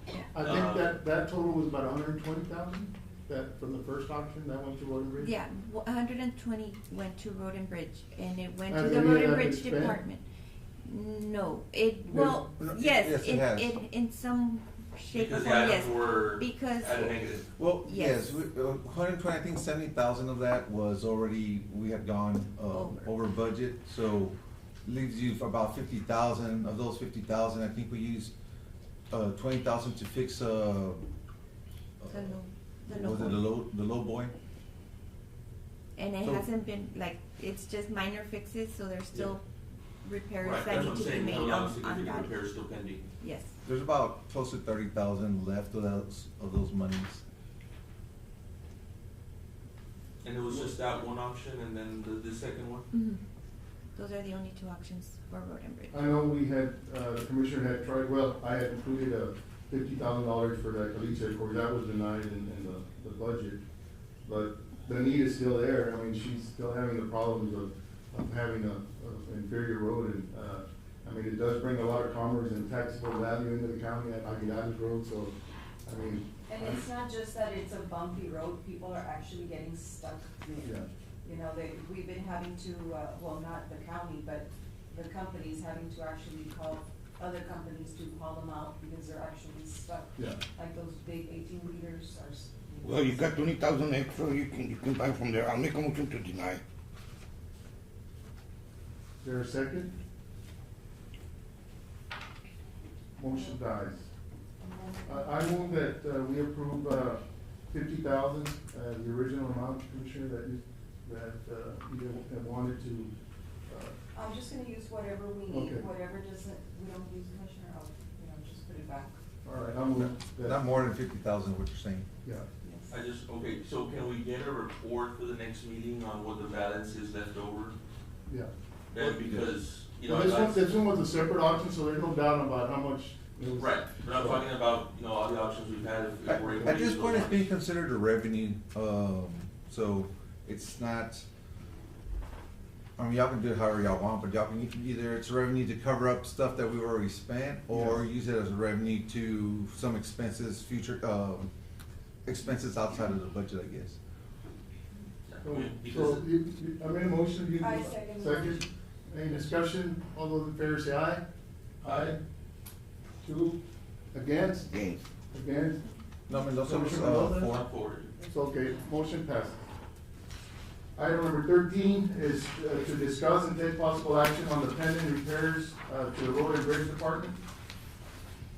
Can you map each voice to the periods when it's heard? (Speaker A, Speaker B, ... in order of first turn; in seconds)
Speaker A: 0.3-5.3, 8.7-10.0, 12.1-12.4, 55.9-63.6, 64.2-75.3, 75.8-76.8, 80.6-80.9, 99.2-99.9, 103.2-104.1, 105.0-113.1, 113.7-113.9, 115.5-115.8, 119.4-120.6, 128.3-129.2, 130.0-134.4, 147.7-148.0, 155.4-161.2, 161.8-162.2, 163.2-163.6, 164.1-164.7, 165.3-165.9, 166.4-167.5, 168.3-169.6, 170.9-177.4
Speaker B: 0.4-0.9, 15.1-17.5, 40.4-43.1, 50.2-52.9, 122.9-127.8, 128.9-130.7, 133.6-137.5, 155.3-156.2, 161.8-162.1, 167.5-168.1
Speaker C: 5.2-10.2, 10.8-17.1, 17.8-18.3, 22.7-23.1, 32.1-33.5, 36.0-39.4, 40.0-42.3, 43.2-43.5, 52.9-53.2, 53.9-56.0
Speaker D: 12.6-13.7, 17.6-28.3, 29.1-31.1, 32.0-32.4, 32.9-34.3, 43.6-47.2, 120.0-122.1, 136.3-141.2, 143.0-151.5, 152.2-154.0, 166.3-167.6
Speaker E: 76.5-93.3, 104.6-105.4, 114.1-119.2, 122.6-123.0, 157.6-158.7, 168.2-168.9
Speaker F: 92.8-96.6, 164.7-165.0